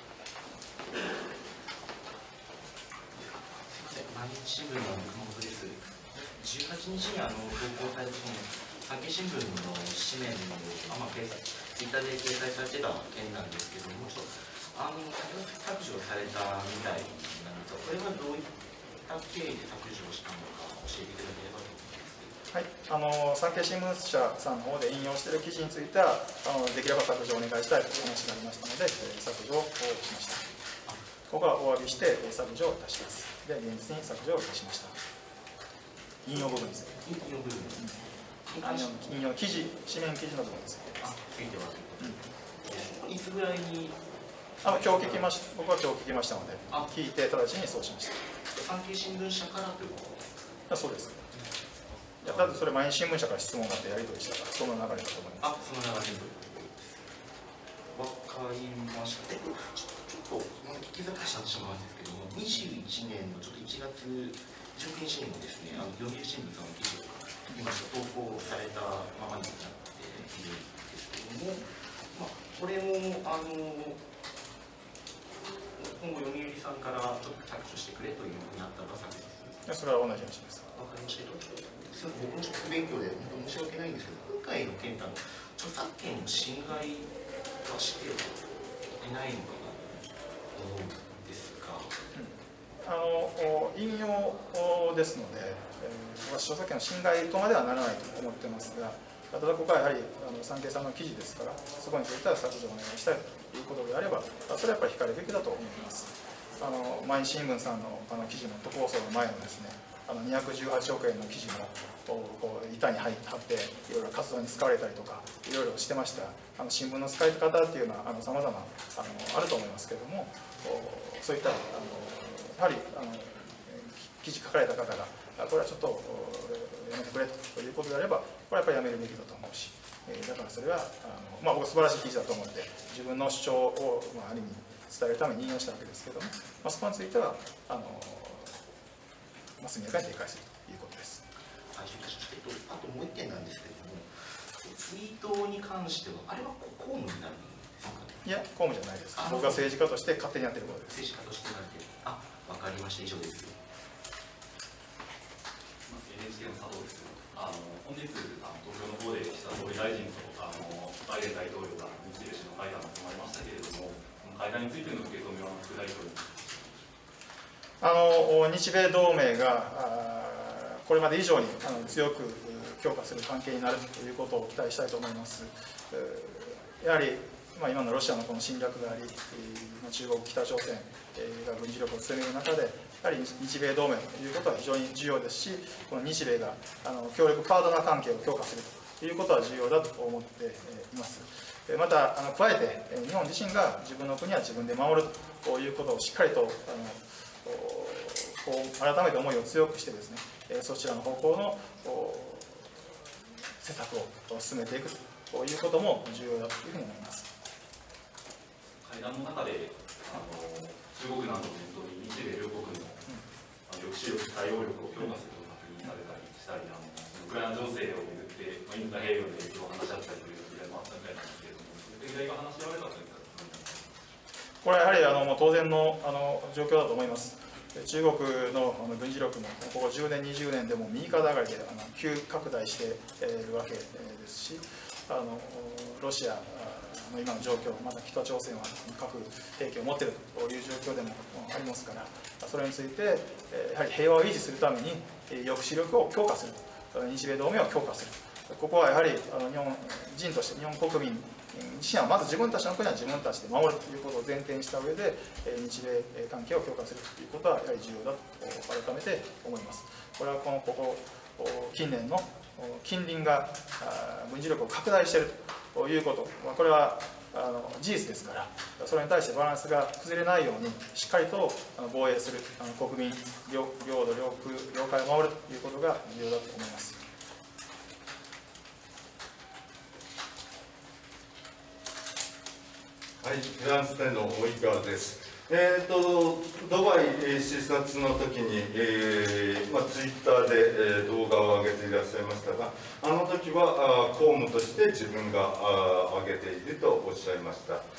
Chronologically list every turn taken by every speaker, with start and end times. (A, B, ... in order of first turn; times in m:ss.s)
0:03.2-0:22.4 A
0:22.5-0:30.5 B
0:31.3-0:35.0 B
0:36.2-0:37.0 B
0:36.3-0:37.9 A
0:38.4-0:39.0 A
0:38.6-0:41.2 B
0:41.0-0:44.0 A
0:44.6-0:45.3 A
0:44.6-0:48.2 B
0:48.5-0:50.3 A
0:50.7-0:51.2 B
0:51.3-0:52.6 A
0:52.2-0:55.5 B
0:55.4-0:57.3 A
0:57.9-1:14.0 A
1:15.5-1:19.6 A
1:19.6-1:20.7 B
1:20.7-1:32.0 A
1:32.1-2:18.6 B
2:19.6-2:21.2 B
2:21.7-2:28.2 A
2:28.2-2:31.0 B
2:29.1-2:29.7 A
2:30.9-2:33.6 A
2:35.8-2:46.9 C
2:47.8-3:22.9 B
3:23.5-3:27.3 B
3:28.8-3:33.0 C
3:33.7-3:44.0 C
3:44.6-4:37.0 B
4:43.2-4:57.8 D